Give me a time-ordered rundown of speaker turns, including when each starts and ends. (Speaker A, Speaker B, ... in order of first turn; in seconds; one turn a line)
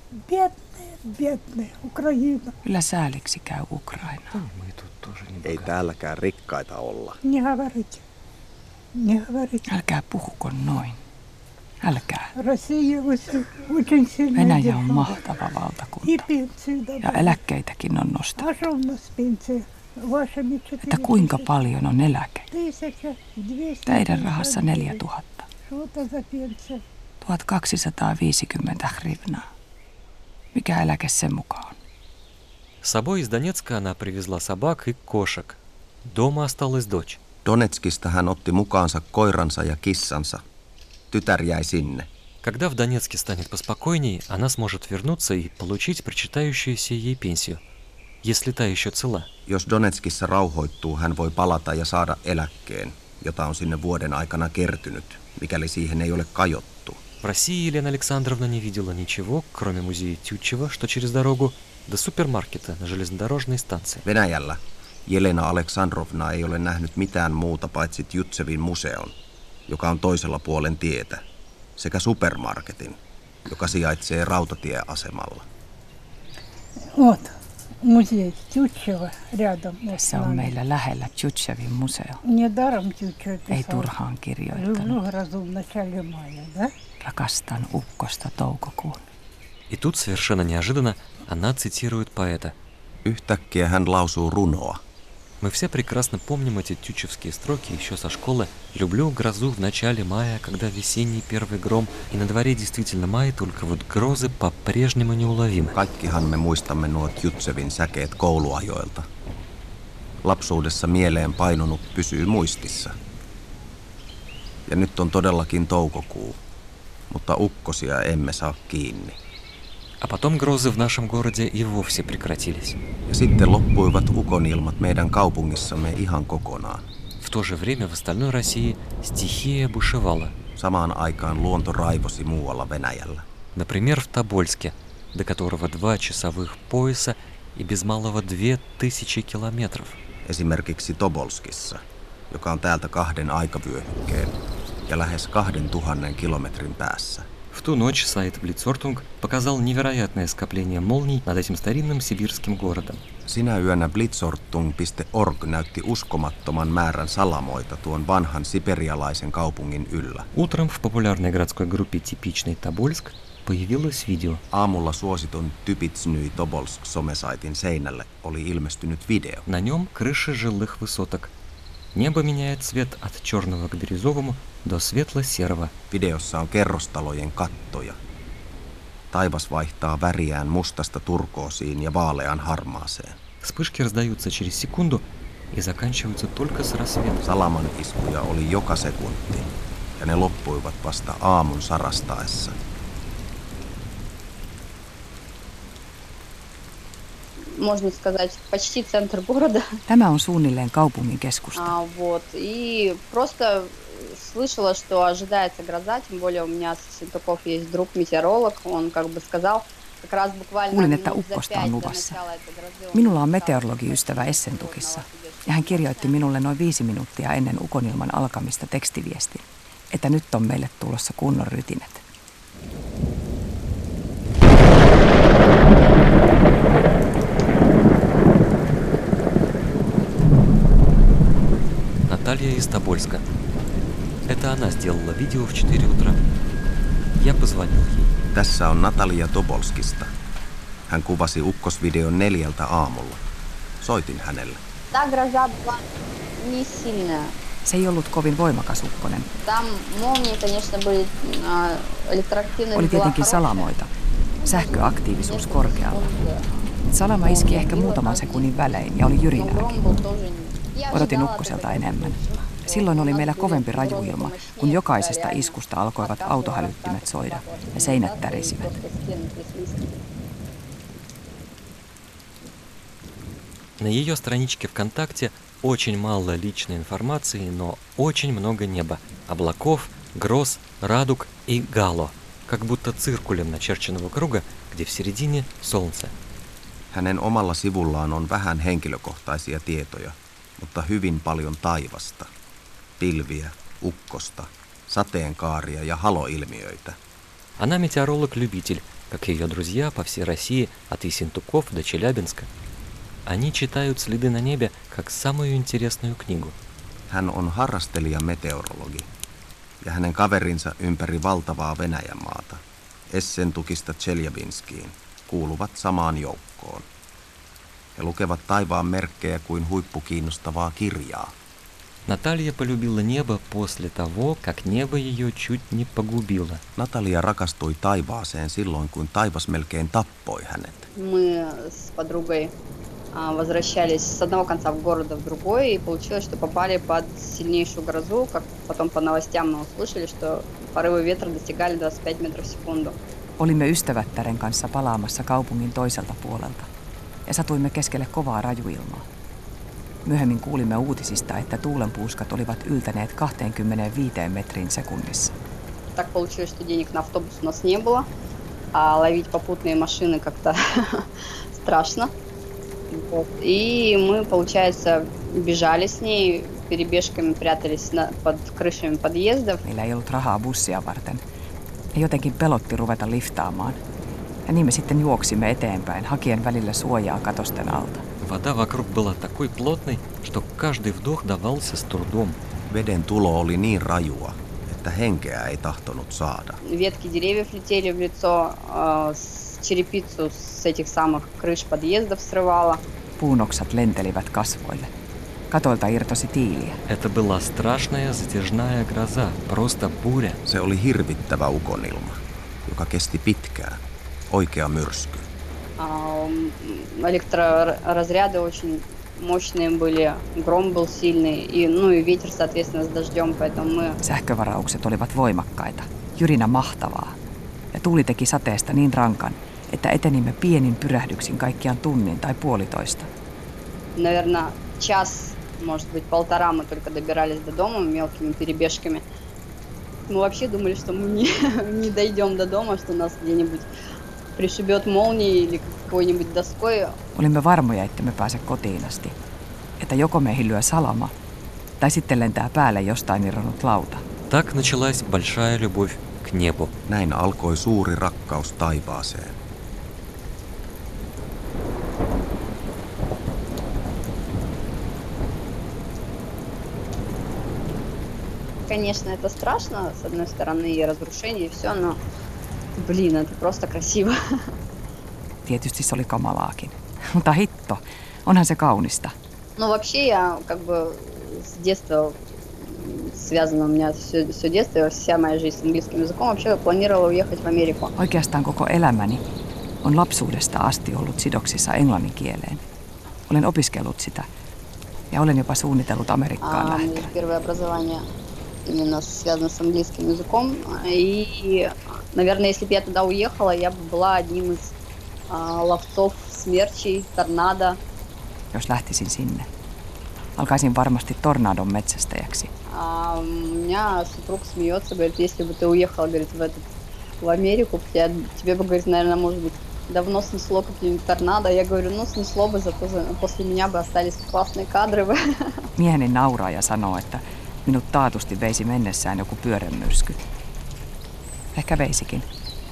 Speaker A: 0.2-2.6
Speaker B: 2.6-4.3
Speaker C: 4.3-5.7
Speaker D: 5.4-7.2
Speaker A: 7.2-8.1
Speaker A: 9.0-9.7
Speaker B: 9.7-11.0
Speaker B: 11.8-12.3
Speaker A: 12.4-15.4
Speaker B: 14.3-16.3
Speaker A: 16.0-17.4
Speaker B: 17.0-18.5
Speaker A: 18.4-21.5
Speaker B: 20.9-22.5
Speaker A: 22.5-25.0
Speaker B: 23.9-25.5
Speaker A: 25.6-26.8
Speaker B: 27.2-29.5
Speaker B: 30.5-31.8
Speaker C: 32.8-37.2
Speaker D: 37.5-40.4
Speaker D: 41.1-42.1
Speaker C: 42.4-47.6
Speaker C: 48.2-49.3
Speaker D: 49.5-57.0
Speaker C: 57.2-64.0
Speaker D: 64.0-69.1
Speaker D: 69.7-71.2
Speaker D: 71.8-75.5
Speaker A: 76.9-80.6
Speaker B: 79.9-82.2
Speaker A: 82.2-83.9
Speaker B: 83.5-85.0
Speaker A: 84.5-86.7
Speaker B: 87.0-89.0
Speaker C: 89.7-92.5
Speaker D: 93.0-94.8
Speaker C: 95.4-105.8
Speaker D: 105.7-109.1
Speaker D: 110.2-113.0
Speaker D: 114.7-116.4
Speaker D: 117.1-119.2
Speaker C: 120.0-122.8
Speaker D: 123.1-126.8
Speaker C: 127.2-130.3
Speaker D: 130.6-133.3
Speaker C: 133.6-140.0
Speaker D: 140.3-144.3
Speaker D: 144.9-147.3
Speaker C: 147.5-153.0
Speaker D: 153.3-160.3
Speaker C: 160.3-164.4
Speaker D: 164.5-169.5
Speaker C: 169.5-171.3
Speaker C: 171.9-175.7
Speaker D: 175.9-178.0
Speaker D: 179.1-183.2
Speaker C: 183.4-187.2
Speaker D: 187.2-192.6
Speaker E: 197.5-199.7
Speaker B: 199.9-201.8
Speaker E: 201.6-216.2
Speaker B: 210.7-212.2
Speaker B: 212.9-222.0
Speaker C: 232.1-233.2
Speaker C: 234.3-236.2
Speaker C: 237.2-238.1
Speaker D: 238.3-240.1
Speaker D: 240.9-243.2
Speaker D: 243.8-244.6
Speaker E: 244.9-245.9
Speaker E: 246.4-247.3
Speaker B: 247.7-249.3
Speaker E: 249.5-253.7
Speaker B: 252.7-253.9
Speaker E: 254.4-256.5
Speaker B: 254.4-256.1
Speaker B: 256.9-259.8
Speaker E: 257.1-258.8
Speaker E: 259.3-269.9
Speaker B: 260.9-268.7
Speaker C: 273.8-286.1
Speaker D: 286.9-292.3
Speaker D: 293.0-297.0
Speaker C: 297.6-302.5
Speaker C: 303.3-306.6
Speaker D: 307.1-309.1
Speaker D: 309.8-316.9
Speaker D: 318.0-321.3
Speaker C: 322.1-326.6
Speaker D: 326.8-330.9
Speaker E: 331.0-332.5
Speaker E: 333.1-343.0
Speaker B: 343.4-346.7
Speaker B: 347.3-349.1
Speaker B: 350.1-355.3
Speaker E: 355.9-358.1
Speaker E: 358.7-362.1
Speaker E: 362.9-369.6
Speaker B: 369.6-371.2
Speaker B: 371.9-373.8
Speaker B: 374.5-378.0
Speaker C: 378.2-382.4
Speaker D: 382.7-386.6
Speaker E: 386.6-392.8
Speaker B: 393.2-394.9
Speaker B: 395.5-396.8
Speaker C: 396.9-400.4
Speaker D: 400.4-405.3
Speaker E: 405.8-414.0
Speaker B: 414.0-417.2
Speaker B: 417.7-423.1
Speaker E: 424.0-429.0
Speaker E: 430.1-433.7
Speaker E: 434.4-437.0
Speaker B: 437.1-439.2
Speaker B: 439.8-441.1
Speaker B: 441.8-444.1
Speaker C: 444.3-446.7
Speaker D: 446.9-449.4
Speaker E: 458.7-462.0
Speaker E: 462.8-464.2
Speaker B: 465.5-469.1
Speaker E: 469.6-477.9
Speaker B: 478.0-479.2
Speaker B: 479.8-482.6
Speaker B: 483.3-484.3
Speaker B: 485.1-487.1
Speaker E: 486.4-488.1
Speaker E: 488.7-494.7
Speaker E: 495.3-497.8
Speaker B: 498.5-499.5
Speaker B: 500.4-502.5
Speaker E: 502.7-506.6
Speaker E: 507.2-515.6
Speaker B: 515.8-520.2
Speaker B: 521.5-522.3